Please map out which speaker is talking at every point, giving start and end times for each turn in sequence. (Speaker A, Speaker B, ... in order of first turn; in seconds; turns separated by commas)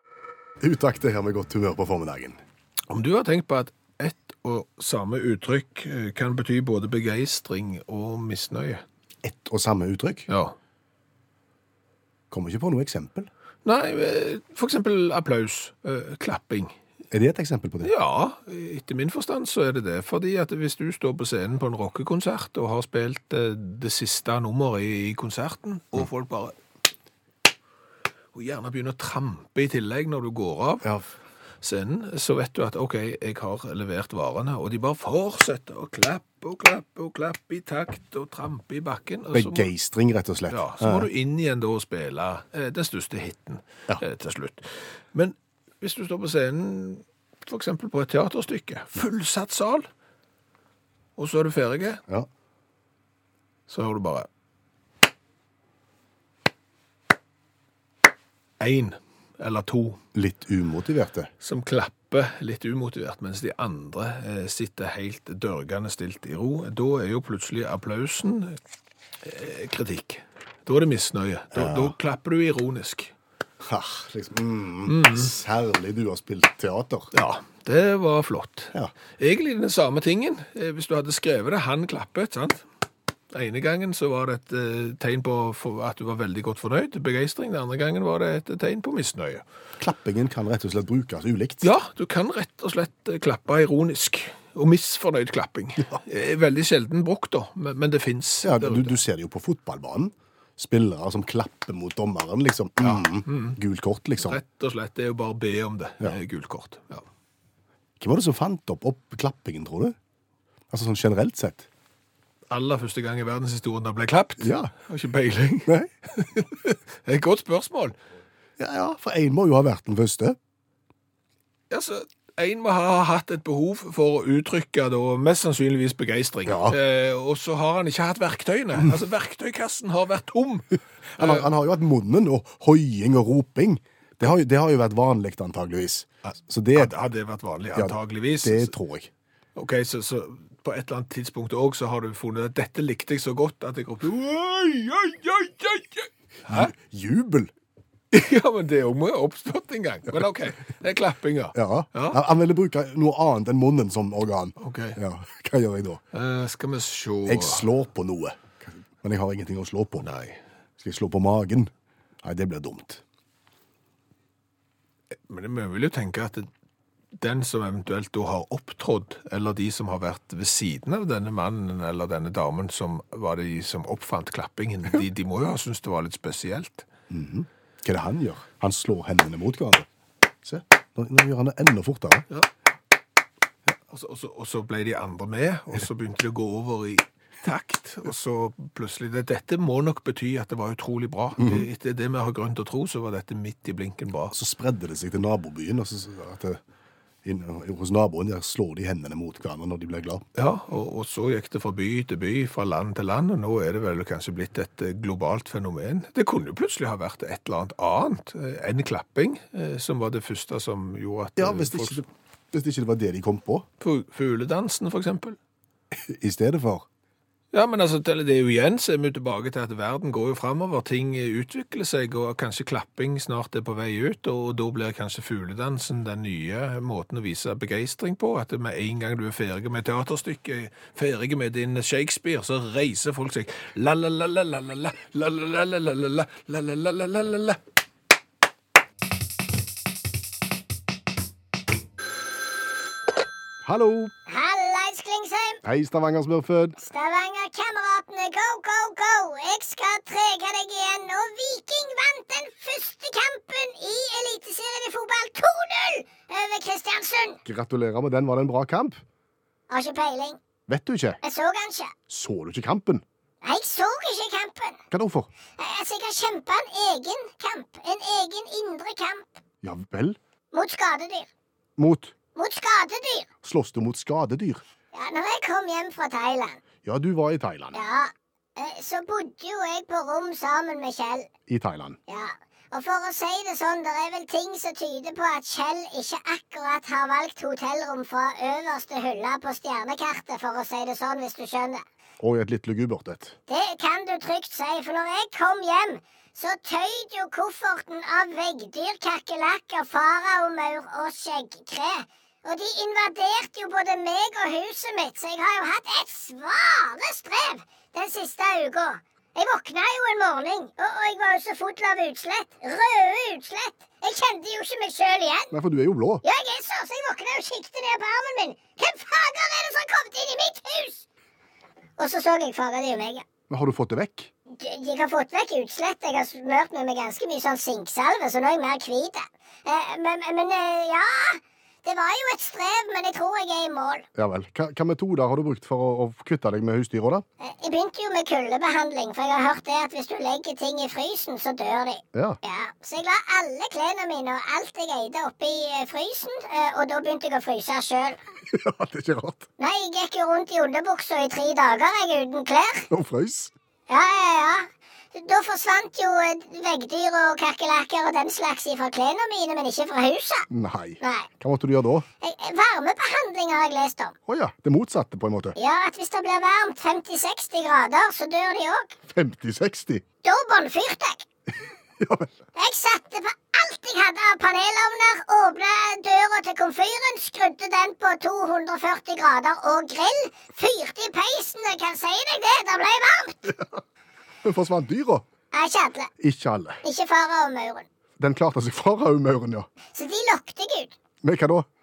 Speaker A: 0.6-2.4, Speaker B: 2.9-8.8, Speaker A: 9.2-10.2, Speaker B: 10.3-10.5, Speaker A: 12.3-13.3, Speaker B: 13.6-16.7, Speaker A: 17.1-17.9, Speaker B: 17.8-26.6, Speaker B: 28.3-30.9, Speaker A: 30.8-31.1, Speaker B: 31.6-39.7, Speaker A: 39.3-41.1, Speaker B: 40.5-49.9, Speaker B: 51.2-52.0, Speaker B: 53.7-54.3, Speaker B: 58.6-60.0, Speaker A: 60.1-61.3, Speaker B: 61.4-68.6, Speaker B: 69.2-73.1, Speaker A: 71.5-71.9, Speaker A: 73.6-77.1, Speaker B: 74.8-75.3, Speaker B: 77.1-82.6, Speaker B: 83.3-89.4, Speaker A: 89.8-91.7, Speaker B: 91.6-99.0, Speaker A: 98.4-104.4, Speaker B: 102.8-103.6, Speaker B: 104.2-107.0, Speaker A: 108.0-110.0, Speaker A: 110.7-111.7, Speaker B: 112.5-117.9, Speaker A: 114.4-114.7, Speaker A: 118.6-120.4, Speaker B: 121.7-131.5, Speaker A: 126.5-126.8, Speaker A: 131.2-136.9, Speaker B: 136.8-138.7, Speaker A: 137.7-139.1, Speaker B: 139.5-146.7, Speaker A: 146.5-147.5, Speaker B: 148.1-152.2, Speaker A: 151.5-156.0, Speaker B: 154.6-155.0, Speaker B: 156.1-157.7, Speaker A: 157.2-160.1, Speaker B: 160.0-160.4, Speaker A: 160.8-161.7, Speaker A: 162.2-163.0, Speaker B: 165.3-166.5, Speaker B: 167.2-176.9, Speaker A: 177.1-179.9, Speaker A: 180.4-182.2, Speaker B: 183.9-194.3, Speaker A: 191.4-191.7, Speaker A: 194.3-196.6, Speaker A: 197.2-200.2, Speaker B: 200.3-212.0, Speaker A: 211.3-213.7, Speaker B: 213.8-215.4, Speaker A: 215.9-216.8, Speaker B: 217.5-237.6, Speaker A: 243.6-244.1, Speaker C: 244.3-245.6, Speaker A: 245.6-246.8, Speaker C: 246.8-257.4, Speaker A: 257.4-259.0, Speaker C: 259.7-260.4, Speaker A: 260.7-261.2, Speaker C: 261.2-261.9, Speaker A: 262.1-263.0, Speaker C: 263.4-264.8, Speaker A: 264.9-265.3, Speaker C: 265.6-269.4, Speaker A: 269.6-270.2, Speaker C: 270.5-271.3, Speaker A: 271.8-272.1, Speaker C: 272.3-273.3, Speaker A: 273.4-274.6, Speaker C: 274.9-276.6, Speaker A: 276.8-277.8, Speaker C: 277.7-281.3, Speaker A: 281.5-282.0, Speaker C: 282.1-291.8, Speaker A: 292.2-293.3, Speaker C: 293.5-315.5, Speaker A: 315.5-316.2, Speaker C: 316.2-321.0, Speaker C: 322.0-323.2, Speaker A: 323.5-324.3, Speaker C: 324.5-334.1, Speaker A: 334.1-337.2, Speaker C: 337.4-348.2, Speaker A: 342.1-342.4, Speaker A: 348.5-349.5, Speaker C: 349.6-352.9, Speaker A: 352.9-353.5, Speaker C: 353.9-360.5, Speaker A: 360.5-362.1, Speaker C: 361.0-361.3, Speaker C: 362.2-364.1, Speaker A: 364.3-365.6, Speaker C: 365.6-369.0, Speaker A: 369.1-370.0, Speaker C: 370.2-371.3, Speaker A: 372.0-372.3, Speaker C: 372.6-383.6, Speaker A: 384.4-385.2, Speaker C: 385.5-386.1, Speaker A: 386.2-386.8, Speaker C: 386.8-387.9, Speaker A: 388.2-389.7, Speaker C: 389.9-391.0, Speaker A: 391.2-391.7